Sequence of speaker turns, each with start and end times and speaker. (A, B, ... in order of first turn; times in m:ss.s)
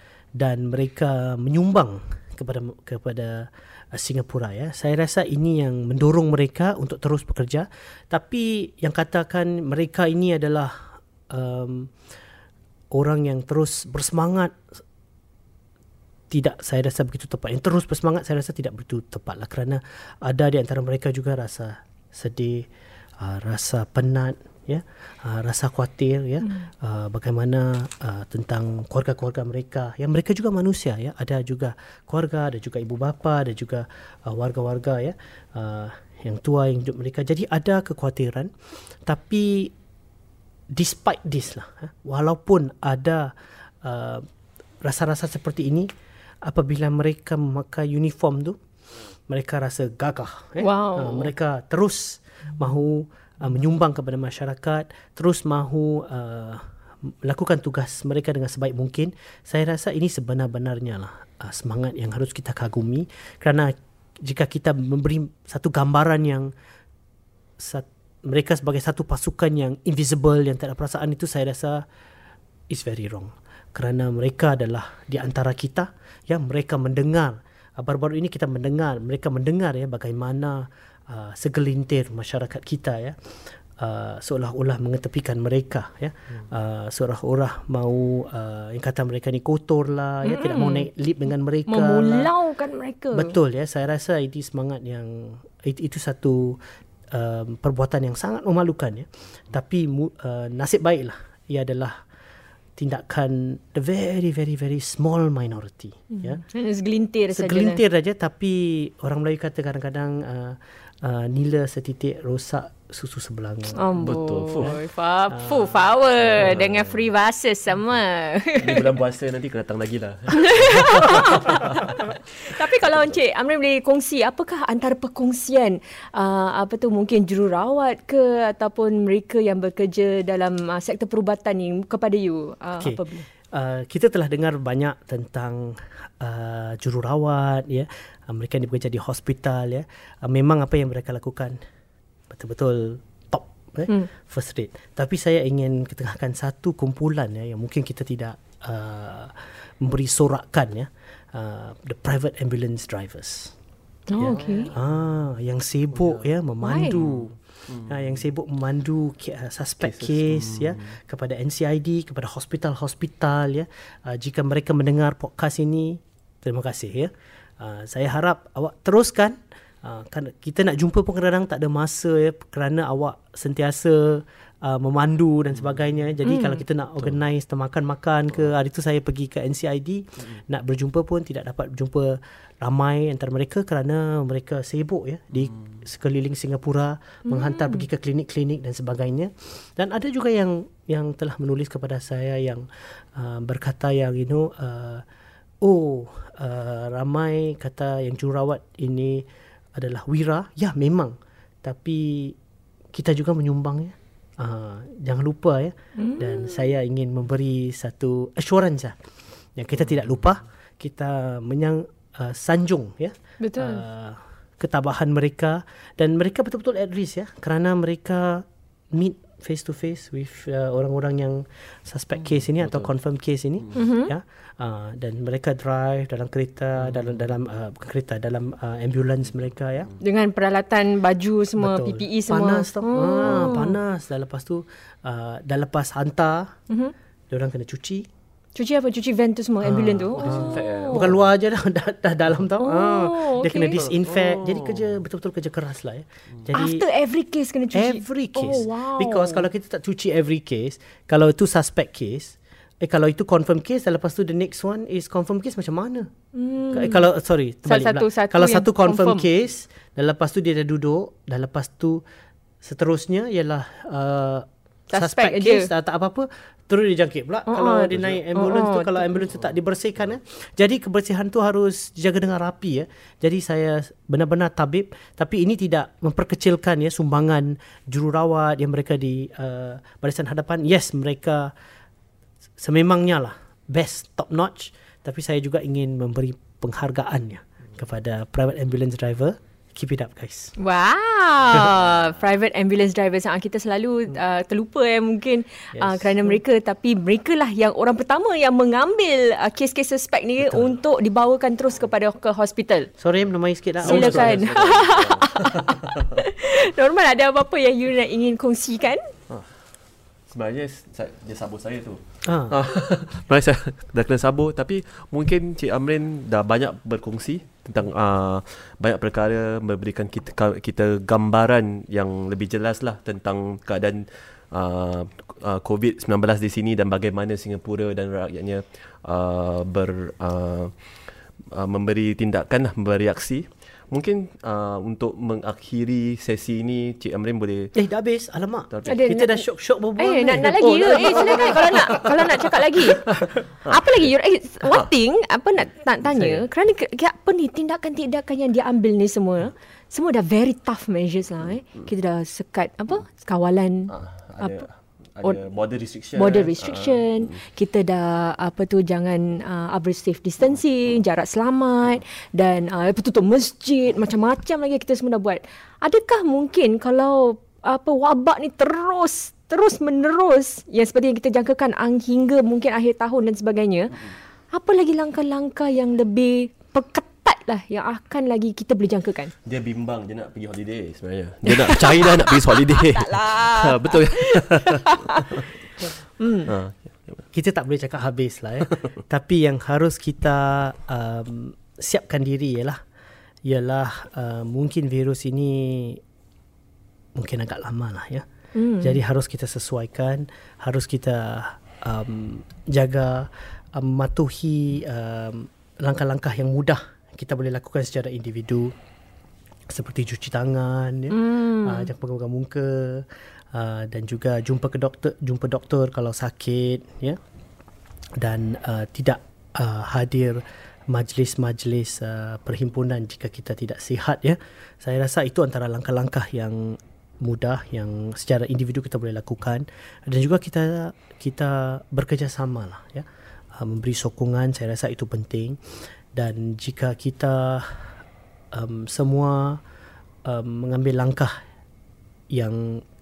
0:00.4-0:11.9 A
0:12.9-0:14.8 A
0:16.3-0:22.7 A
0:23.2-0:38.5 A
0:26.4-0:26.7 B
0:39.1-0:39.7 A
0:40.7-0:44.3 A
0:44.8-0:45.9 A
0:46.4-0:48.6 A
0:49.3-1:06.5 A
0:50.6-0:51.3 B
1:07.6-1:11.9 A
1:12.7-1:32.3 A
1:30.2-1:30.9 B
1:31.7-1:33.4 B
1:33.1-1:36.6 A
1:37.1-1:42.0 A
1:42.8-1:46.4 A
1:46.1-1:47.8 B
1:47.3-1:54.0 A
1:53.8-1:58.9 B
1:54.0-1:54.8 C
1:55.3-1:55.8 A
1:56.4-1:56.9 C
1:58.6-2:02.0 C
2:00.4-2:13.3 B
2:12.8-2:21.6 A
2:22.3-2:33.6 A
2:34.1-2:34.7 B
2:34.2-3:15.0 A
2:34.3-2:34.8 C
2:36.6-2:37.0 B
2:36.9-2:38.2 C
2:39.8-2:41.0 C
2:56.2-2:56.6 B
3:07.3-3:07.8 B
3:15.6-3:22.4 A
3:22.9-3:29.0 A
3:26.0-3:26.7 B
3:29.6-3:49.9 A
3:33.4-3:33.8 B
3:43.7-3:44.1 B
3:50.0-3:53.8 B
3:51.6-3:56.6 A
3:57.3-3:58.1 A
3:58.6-4:01.1 B
3:59.6-4:06.8 A
4:00.2-4:01.2 C
4:02.6-4:03.8 B
4:03.8-4:04.9 C
4:06.5-4:09.5 B
4:07.7-4:16.1 A
4:16.4-4:17.1 B
4:16.7-4:22.0 A
4:17.6-4:19.3 B
4:22.6-4:41.5 A
4:24.9-4:25.7 B
4:27.5-4:29.3 B
4:27.9-4:28.2 C
4:42.6-4:50.5 A
4:50.6-5:02.9 B
4:55.8-4:56.4 A
5:00.4-5:00.8 A
5:03.0-5:04.3 A
5:03.8-5:06.2 C
5:03.8-5:09.1 B
5:10.3-5:37.7 C
5:12.2-5:12.6 A
5:37.8-5:42.1 A
5:38.7-5:39.0 C
5:38.9-5:39.4 B
5:40.0-5:43.1 B
5:43.1-5:44.1 C
5:43.6-5:54.7 B
5:46.1-5:46.4 C
5:53.9-5:57.4 C
5:56.2-6:19.3 B
6:19.4-6:25.5 C
6:21.5-6:26.5 B
6:26.5-6:27.3 C
6:27.3-6:32.8 A
6:33.4-6:36.0 A
6:37.2-6:38.3 A
6:38.6-6:39.0 B
6:38.8-6:48.7 A
6:49.7-6:57.2 A
6:51.1-6:51.9 B
6:58.2-7:15.6 A
7:16.1-7:17.9 A
7:18.5-7:19.6 A
7:20.2-7:21.4 A
7:22.3-7:22.8 A